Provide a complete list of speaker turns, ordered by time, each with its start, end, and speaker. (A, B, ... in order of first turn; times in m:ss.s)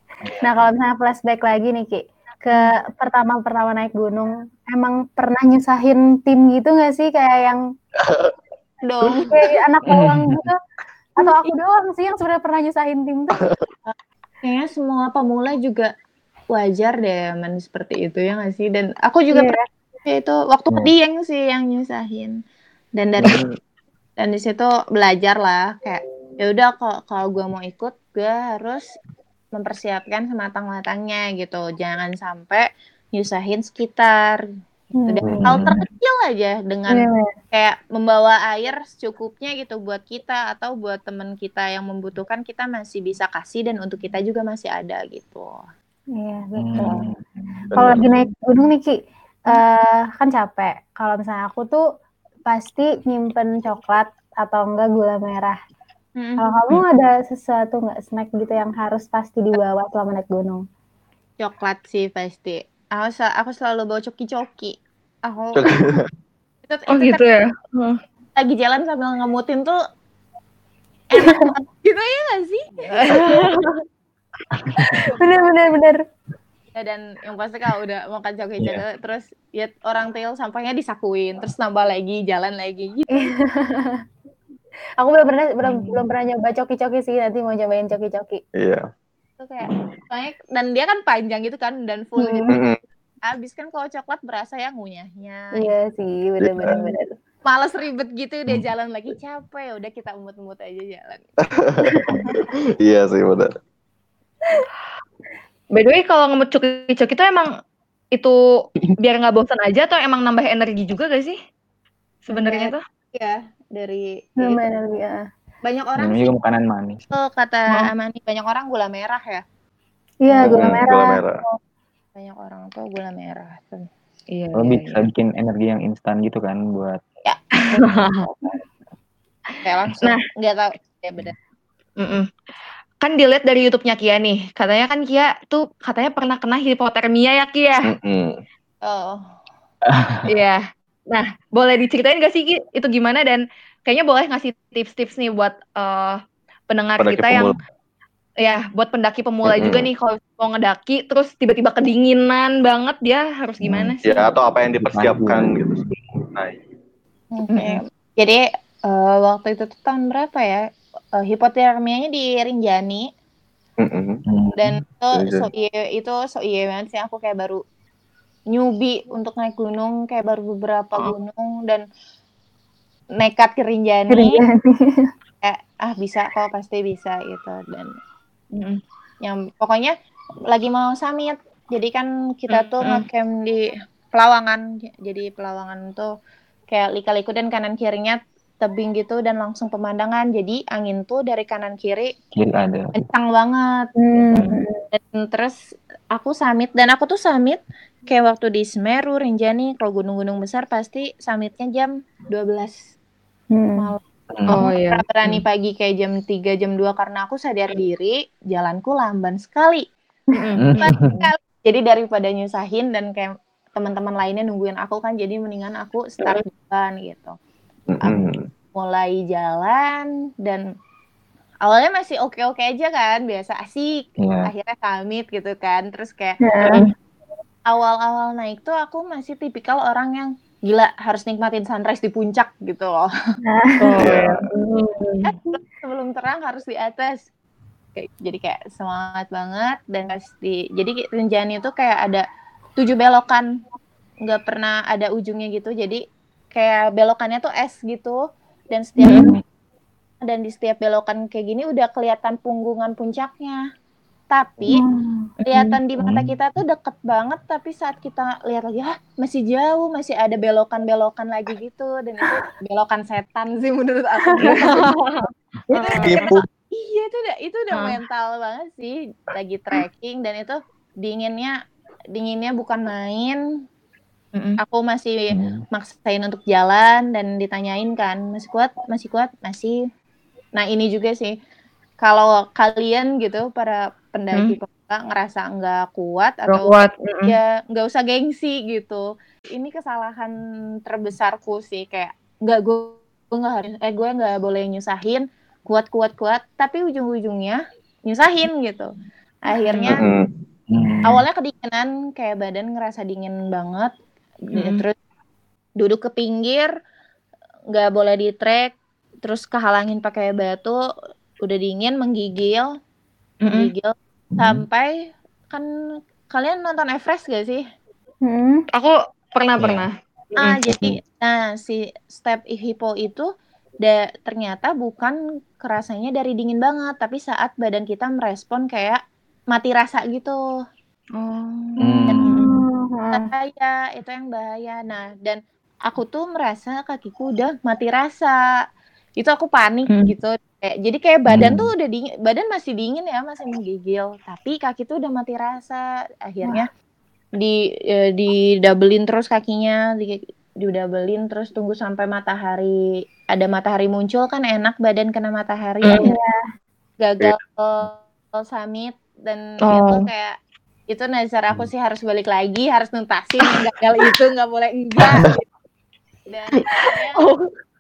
0:00.4-0:07.6 A
0:08.0-0:08.3 B
0:08.8-0:09.5 C
0:09.3-0:10.6 A
0:09.9-0:10.5 D
0:11.2-0:13.5 A
0:13.9-0:15.9 C
0:16.5-0:22.4 C
0:19.3-0:19.6 A
0:23.0-0:23.4 C
0:24.2-0:28.9 C
0:29.5-0:34.4 C
0:35.0-0:35.2 A
0:35.0-0:45.6 C
0:35.4-0:35.8 D
0:36.9-0:37.3 A
0:46.2-0:47.1 A
0:46.6-0:47.2 D
0:47.7-0:48.2 B
0:47.8-0:51.8 A
0:52.5-0:55.6 A
0:56.2-0:56.4 C
0:56.4-1:00.6 A
1:01.4-1:05.7 C
1:05.5-1:06.1 B
1:06.7-1:07.3 C
1:06.9-1:08.0 E
1:08.4-1:09.8 C
1:11.1-1:13.6 C
1:11.2-1:11.4 A
1:13.0-1:13.8 E
1:15.1-1:16.0 A
1:16.7-1:23.3 C
1:23.2-1:24.0 A
1:25.0-1:28.4 A
1:28.6-1:28.9 B
1:29.4-1:32.5 C
1:32.2-1:32.5 A
1:32.5-1:32.8 B
1:33.2-1:35.7 C
1:35.5-1:37.1 A
1:36.4-1:36.8 B
1:37.4-1:41.2 C
1:41.4-1:43.5 B
1:42.1-1:42.4 A
1:45.7-1:47.5 E
1:48.1-1:51.4 E
1:52.3-1:52.8 E
1:52.6-1:54.6 C
1:54.4-1:55.2 A
1:55.6-1:56.4 C
1:56.0-1:57.0 D
1:57.1-1:59.4 C
2:00.2-2:01.2 A
2:00.3-2:00.7 C
2:00.5-2:01.4 B
2:02.2-2:03.9 C
2:04.3-2:05.0 E
2:04.6-2:07.0 D
2:07.3-2:08.1 C
2:07.7-2:08.2 E
2:07.9-2:08.1 D
2:09.6-2:11.4 C
2:12.0-2:12.3 E
2:13.0-2:17.9 E
2:17.8-2:18.4 B
2:18.8-2:19.2 C
2:19.9-2:20.2 D
2:20.3-2:26.2 E
2:26.7-2:27.5 E
2:27.0-2:27.6 B
2:28.4-2:34.3 E
2:29.4-2:29.9 B
2:33.6-2:34.0 D
2:34.0-2:36.6 B
2:34.8-2:35.7 D
2:37.3-2:43.1 C
2:37.5-2:37.8 E
2:43.8-2:44.2 B
2:44.3-2:44.8 D
2:44.6-2:47.6 C
2:45.1-2:45.5 B
2:48.5-2:51.8 C
2:53.2-2:54.4 C
2:54.1-2:55.1 A
2:55.4-2:57.9 C
2:58.5-2:58.8 E
2:59.2-2:59.9 C
3:00.5-3:06.1 C
3:02.5-3:03.0 E
3:06.7-3:12.1 C
3:12.4-3:13.0 D
3:13.0-3:22.9 C
3:14.0-3:14.8 A
3:23.5-3:23.9 A
3:23.8-3:29.9 C
3:24.3-3:24.6 D
3:24.5-3:25.4 E
3:30.4-3:30.9 E
3:30.6-3:31.2 D
3:30.8-3:37.4 C
3:37.9-3:38.5 B
3:38.7-3:40.7 C
3:41.6-3:46.4 C
3:44.2-3:44.5 D
3:46.4-3:46.8 A
3:47.7-3:53.1 C
3:53.4-3:54.0 A
3:53.8-3:55.3 E
3:54.0-3:54.4 B
3:55.2-3:57.3 C
3:58.0-4:02.2 C
4:02.8-4:03.6 C
4:04.2-4:09.4 C
4:09.0-4:09.3 E
4:09.1-4:09.4 D
4:10.2-4:13.6 C
4:14.3-4:14.8 C
4:14.7-4:15.3 A
4:15.4-4:15.8 E
4:15.5-4:25.0 C
4:16.0-4:16.3 D
4:24.3-4:24.9 A
4:24.4-4:26.4 E
4:25.7-4:31.6 C
4:26.0-4:26.5 B
4:32.1-4:33.4 C
4:34.4-4:34.6 E
4:34.6-4:39.8 C
4:35.3-4:35.6 D
4:40.6-4:41.4 C
4:42.0-4:58.9 C
4:46.5-4:47.4 E
4:59.4-5:00.1 C
4:59.9-5:00.3 B
5:00.7-5:01.3 D
5:01.0-5:03.9 C
5:04.5-5:05.0 C
5:04.6-5:04.8 E
5:05.8-5:06.8 C
5:07.7-5:10.8 C
5:11.4-5:12.7 C
5:13.4-5:13.7 E
5:13.5-5:15.7 C
5:14.4-5:14.6 D
5:16.3-5:17.6 C
5:18.2-5:18.7 A
5:18.7-5:20.6 E
5:19.6-5:19.9 D
5:20.4-5:23.3 C
5:20.7-5:21.0 D
5:23.8-5:30.6 C
5:31.2-5:32.5 E
5:31.8-5:33.3 A
5:31.8-5:32.5 D
5:32.1-5:32.3 C
5:33.1-5:38.4 C
5:39.2-5:46.7 C
5:41.3-5:41.7 D
5:47.4-5:56.2 C
5:55.8-5:56.1 E
5:56.0-5:56.4 A
5:57.0-6:00.4 C
5:59.6-6:00.1 E
6:00.9-6:05.4 C
6:06.3-6:07.2 C
6:07.2-6:07.5 E